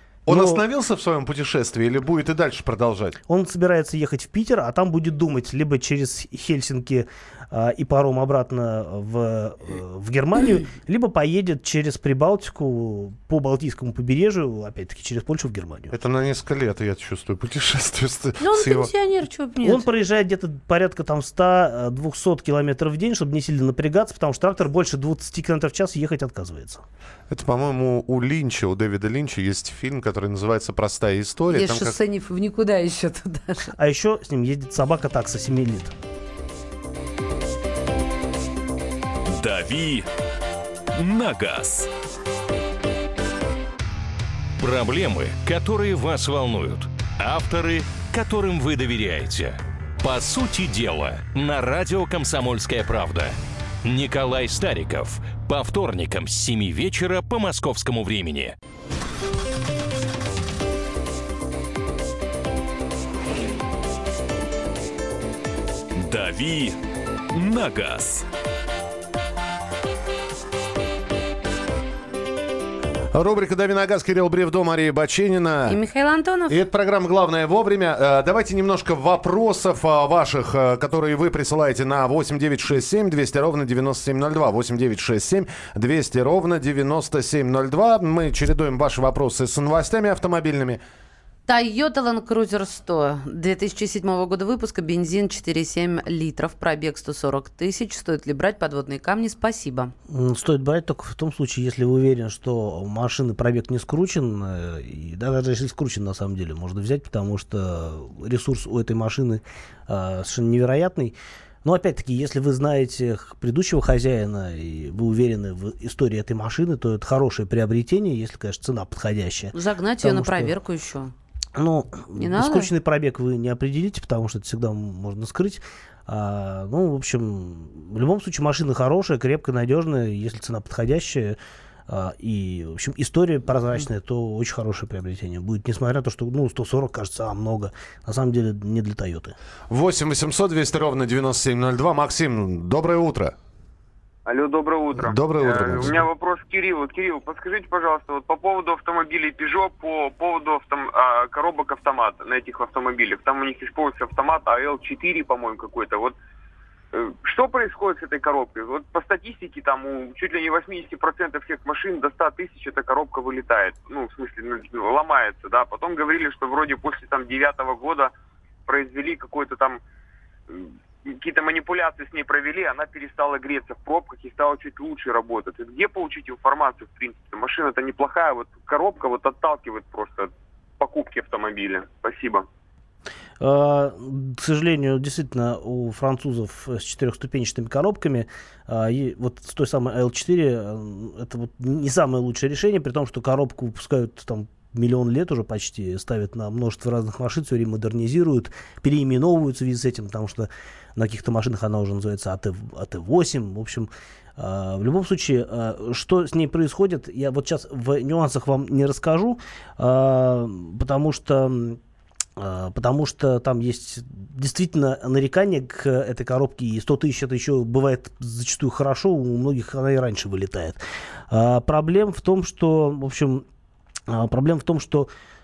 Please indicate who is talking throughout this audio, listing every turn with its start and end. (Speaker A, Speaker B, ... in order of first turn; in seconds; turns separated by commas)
Speaker A: 0.3-0.6, Speaker B: 0.3-3.2, Speaker A: 3.3-15.9, Speaker B: 15.9-18.9, Speaker C: 18.4-19.9, Speaker A: 19.6-26.8, Speaker B: 27.3-31.9, Speaker C: 31.5-33.7, Speaker A: 33.8-35.9, Speaker D: 39.3-40.1, Speaker D: 40.9-41.9, Speaker E: 44.6-58.5, Speaker D: 66.0-66.8, Speaker D: 67.3-68.3, Speaker B: 73.1-75.8, Speaker C: 75.7-76.6, Speaker B: 76.5-90.8, Speaker C: 91.5-99.9, Speaker A: 100.1-120.5, Speaker C: 119.5-121.1, Speaker A: 121.5-131.4, Speaker C: 122.2-122.7, Speaker A: 131.9-139.3, Speaker B: 139.7-143.3, Speaker F: 144.2-156.2, Speaker B: 144.9-146.1, Speaker F: 156.9-168.1, Speaker F: 168.7-169.8, Speaker F: 170.5-182.5, Speaker A: 183.4-211.8, Speaker A: 212.4-223.4, Speaker A: 224.1-225.1